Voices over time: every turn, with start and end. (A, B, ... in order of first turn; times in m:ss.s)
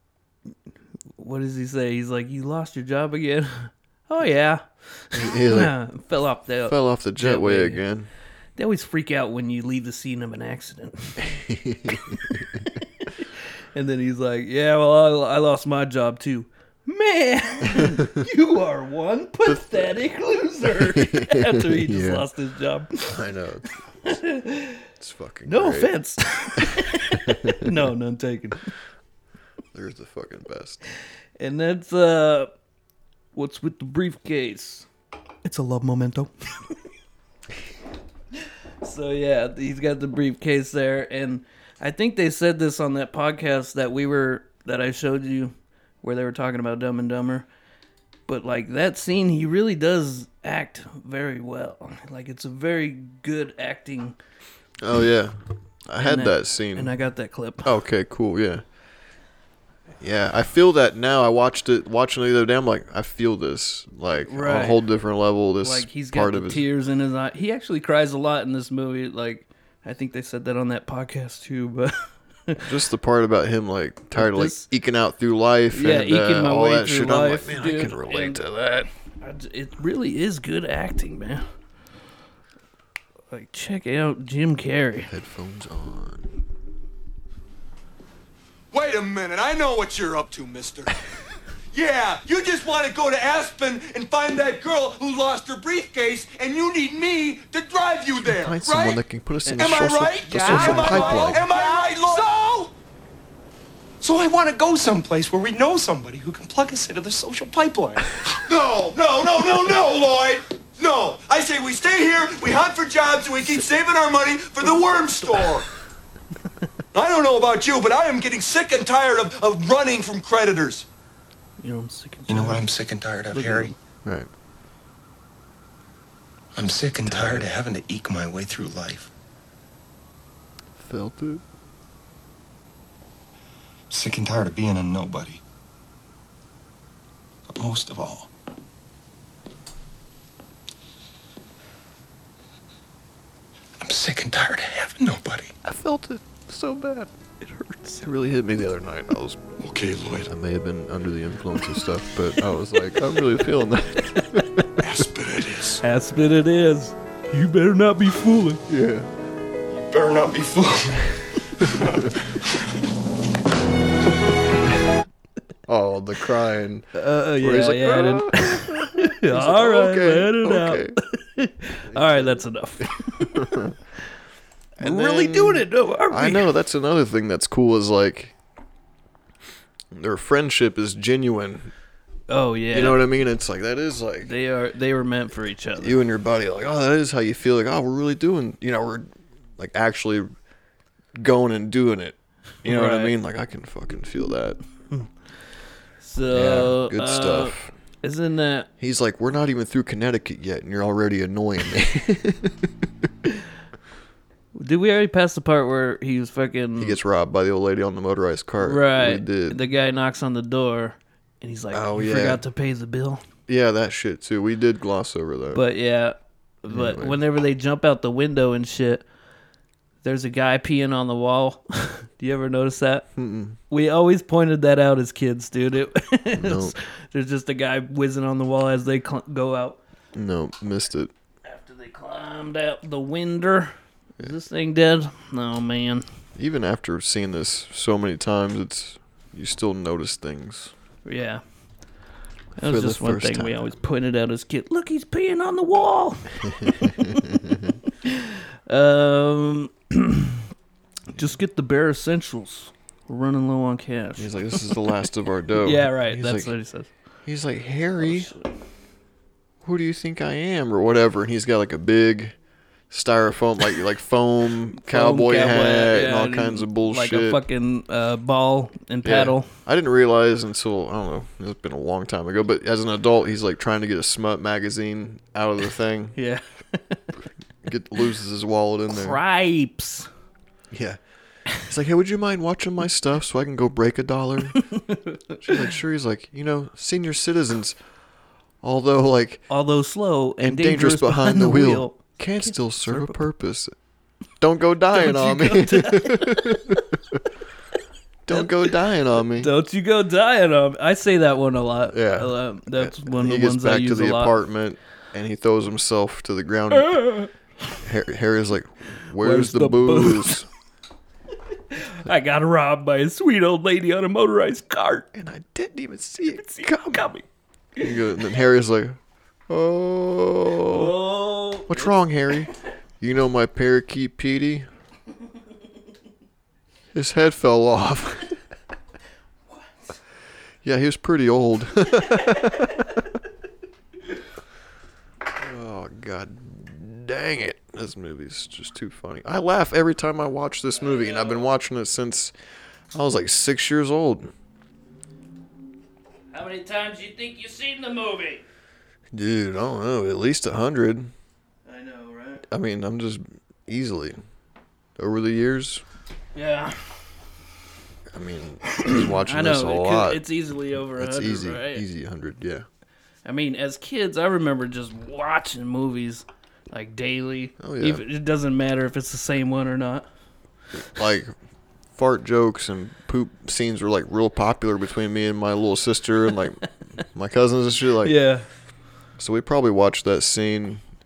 0:01.2-0:07.8 A
0:05.1-0:05.7 B
0:06.6-0:08.1 B
0:08.6-0:11.3 A
0:11.2-0:12.6 B
0:12.8-0:23.2 A
0:17.8-0:18.2 B
0:19.4-0:20.0 B
0:20.6-0:22.3 B
0:23.1-0:23.7 B
0:24.0-0:24.9 A
0:25.0-0:25.9 B
0:25.5-0:28.7 A
0:26.6-0:27.7 B
0:29.7-0:30.8 B
0:31.4-0:32.5 A
0:33.4-0:34.9 A
0:35.4-0:36.8 A
0:38.8-0:47.5 A
0:48.3-0:54.2 A
0:54.8-0:55.4 B
0:55.9-0:56.9 B
0:56.0-0:57.7 A
0:57.6-0:58.6 B
1:00.0-1:06.7 B
1:04.3-1:04.8 A
1:05.6-1:12.7 A
1:12.6-1:18.9 B
1:14.2-1:14.7 A
1:15.7-1:18.4 A
1:19.2-1:21.4 A
1:23.3-1:25.1 A
1:25.1-1:26.3 B
1:28.7-1:30.9 C
1:31.7-1:39.0 C
1:38.2-1:41.5 B
1:39.4-1:41.3 A
1:39.6-1:42.7 C
1:40.4-1:41.8 D
1:44.0-1:48.1 D
1:48.4-1:55.7 C
1:56.9-2:00.9 C
2:01.6-2:02.7 A
2:02.3-2:03.7 D
2:03.3-2:03.8 A
2:06.6-2:09.1 D
2:07.0-2:07.5 B
2:10.8-2:11.4 B
2:13.9-2:15.4 D
2:17.5-2:18.3 D
2:23.8-2:25.5 D
2:25.6-2:27.1 B
2:27.7-2:29.5 B
2:27.7-2:28.0 A
2:29.6-2:30.3 D
2:30.2-2:35.0 B
2:34.8-2:35.8 D
2:35.8-2:38.6 A
2:38.7-2:39.1 B
2:39.8-2:42.2 D
2:41.6-2:41.9 B
2:45.7-2:51.0 B
2:47.0-2:53.6 A
2:51.9-2:53.8 B
2:54.8-2:58.4 B
2:54.8-2:56.5 A
2:59.9-3:01.7 B
3:02.3-3:03.0 A
3:02.7-3:04.3 B
3:04.2-3:06.0 A
3:05.8-3:10.3 B
3:11.2-3:14.6 B
3:12.6-3:13.1 A
3:16.0-3:18.7 A
3:16.3-3:17.7 B
3:18.8-3:23.1 B
3:24.6-3:27.0 A
3:26.8-3:29.6 B
3:28.6-3:33.2 A
3:31.7-3:32.4 B
3:33.5-3:35.6 B
3:35.5-3:39.0 A
3:36.6-3:37.2 B
3:40.0-3:43.1 A
3:43.2-3:43.6 B
3:43.7-3:49.8 A
3:46.3-3:46.7 B
3:50.1-3:51.1 B
3:51.4-3:56.0 A
3:56.4-4:00.7 B
4:01.0-4:01.4 A
4:02.6-4:03.7 B
4:02.6-4:07.1 A
4:06.6-4:07.7 B
4:08.0-4:10.5 A
4:11.1-4:14.6 A
4:14.2-4:16.5 B
4:15.6-4:16.9 A
4:17.3-4:18.3 B
4:18.0-4:18.6 A
4:19.6-4:22.4 B
4:22.9-4:27.4 B
4:24.8-4:29.5 A
4:29.0-4:36.2 B
4:36.2-4:37.0 A
4:37.6-4:39.2 B
4:38.9-4:40.1 A
4:40.7-4:41.0 B
4:41.6-4:44.7 B
4:44.8-4:45.7 A
4:45.4-4:47.8 B
4:48.6-4:49.5 B
4:49.5-4:53.2 A
4:50.4-4:53.7 B
4:54.4-4:57.2 B
4:54.9-4:56.7 A
4:58.3-4:59.5 B
4:58.3-4:58.7 A
4:59.4-5:04.4 A
5:01.9-5:07.0 B
5:06.7-5:07.3 A
5:07.8-5:10.5 B
5:09.2-5:10.4 A
5:11.7-5:15.1 A
5:15.1-5:17.1 B
5:16.3-5:17.2 A
5:17.8-5:21.0 B
5:20.7-5:21.9 A
5:21.7-5:24.7 B
5:26.9-5:28.3 B
5:30.6-5:33.0 B
5:35.4-5:42.3 B
5:40.8-5:41.5 A
5:42.9-5:44.3 B
5:46.3-5:48.4 A
5:49.1-5:51.1 B
5:51.7-5:52.4 A
5:52.5-5:54.2 B
5:55.0-5:55.8 B
5:56.4-5:56.8 A
5:58.1-6:00.3 B
5:58.7-6:01.8 A
6:00.9-6:02.7 B
6:03.2-6:10.1 A
6:07.6-6:08.0 B
6:10.8-6:11.3 B
6:11.9-6:18.2 B
6:18.0-6:18.5 A
6:19.2-6:20.8 B